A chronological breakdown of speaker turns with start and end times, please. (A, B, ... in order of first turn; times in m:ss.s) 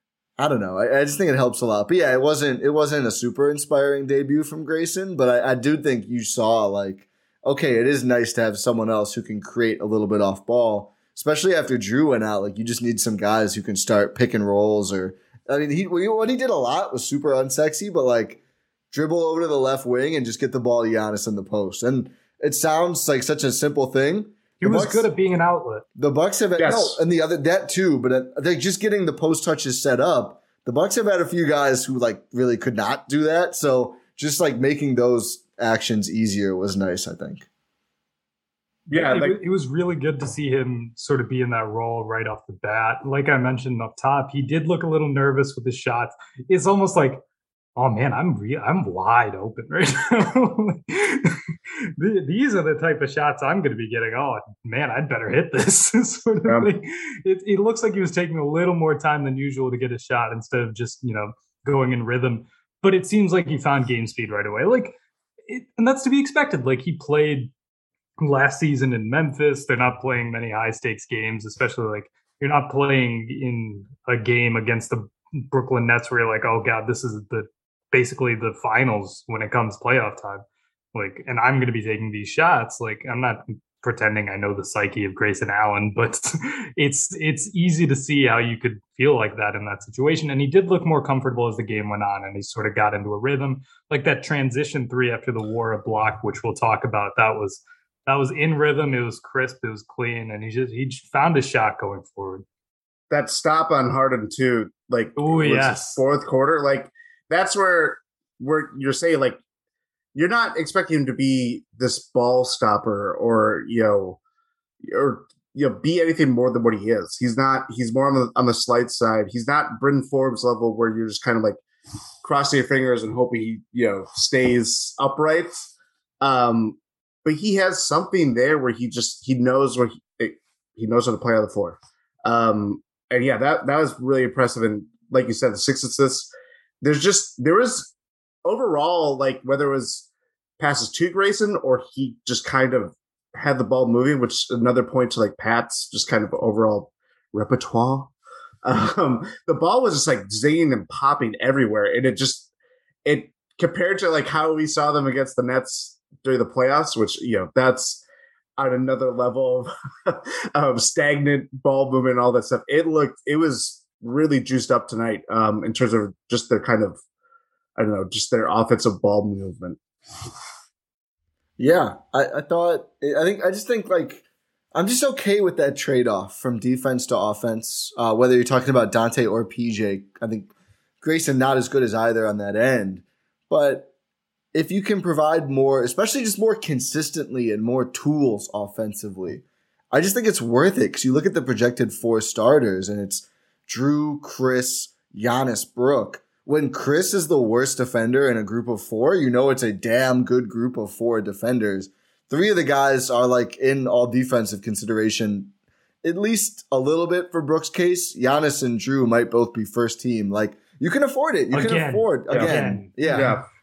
0:00.4-0:18.4 A
0:18.9-0:25.1 A
0:24.6-0:25.8 B
0:26.0-0:37.5 A
0:26.6-0:27.0 C
0:38.9-0:39.4 C
0:38.9-0:47.2 B
0:47.8-0:51.4 B
0:52.0-1:05.0 B
0:56.4-0:56.7 C
1:05.5-1:07.5 B
1:08.2-1:42.4 B
1:43.1-1:49.4 C
1:45.2-1:46.0 B
1:50.1-1:54.2 C
1:54.8-2:01.6 C
2:02.2-2:05.7 C
2:06.2-2:16.3 C
2:16.8-2:17.9 C
2:18.4-2:20.1 C
2:20.6-2:28.1 C
2:28.6-2:32.5 C
2:33.0-2:38.0 C
2:38.6-2:47.0 C
2:47.8-2:49.8 C
2:51.6-3:03.9 A
3:04.5-3:25.5 A
3:26.0-3:33.4 A
3:31.5-3:33.4 B
3:32.3-3:32.6 C
3:33.1-3:33.4 C